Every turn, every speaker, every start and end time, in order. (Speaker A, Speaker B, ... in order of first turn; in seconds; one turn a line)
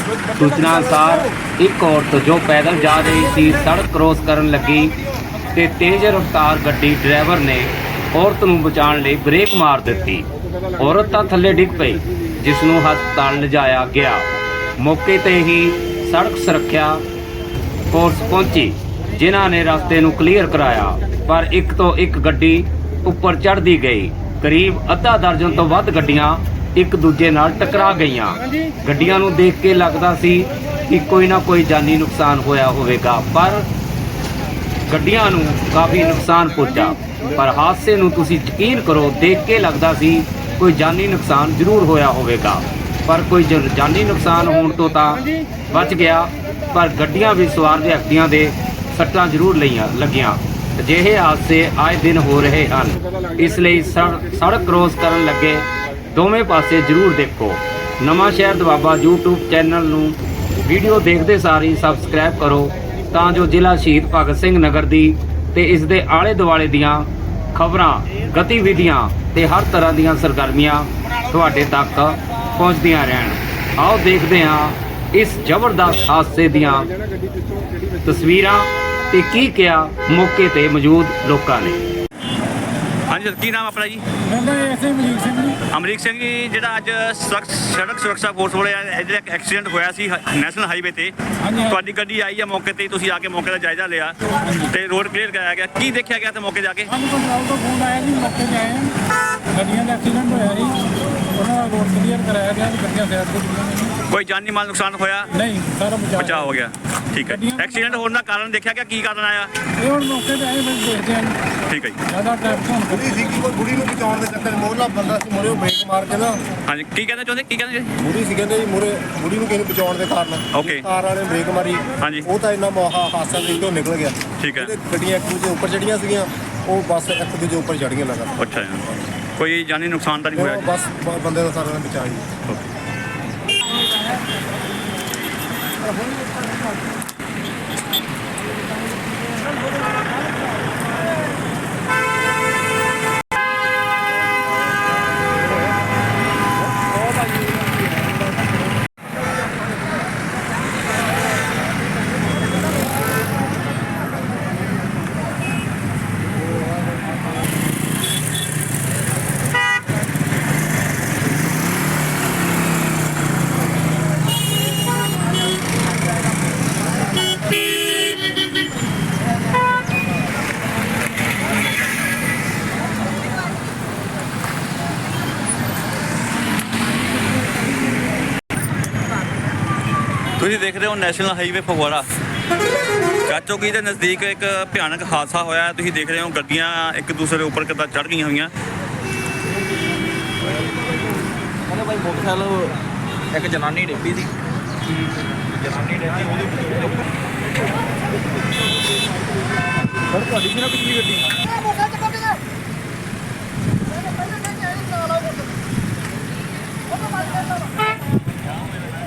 Speaker A: 0.4-5.0
Speaker A: 5.5-10.3
Speaker A: 10.8-14.3
Speaker A: 14.8-17.0
Speaker A: 17.9-33.6
Speaker A: 34.9-76.9
Speaker A: 78.0-81.8
Speaker B: 83.1-84.0
Speaker C: 84.3-85.6
Speaker B: 85.7-91.1
Speaker C: 91.5-91.8
Speaker B: 91.6-94.2
Speaker B: 94.7-96.9
Speaker C: 96.9-98.9
Speaker C: 99.5-100.8
Speaker C: 101.4-104.0
Speaker B: 104.1-105.3
Speaker C: 105.4-106.5
Speaker B: 106.2-109.5
Speaker C: 107.3-108.0
Speaker C: 109.8-111.3
Speaker B: 111.7-112.0
Speaker C: 112.1-113.0
Speaker D: 112.9-116.5
Speaker B: 116.7-117.9
Speaker D: 118.0-128.4
Speaker B: 120.5-120.9
Speaker B: 122.0-122.3
Speaker B: 124.4-124.7
Speaker B: 128.4-128.8
Speaker B: 129.4-130.7
Speaker D: 130.3-132.3
Speaker B: 180.4-182.0
Speaker B: 183.3-188.5
Speaker E: 191.7-192.8
Speaker E: 193.3-194.3
Speaker E: 195.6-196.9
Speaker E: 200.6-201.2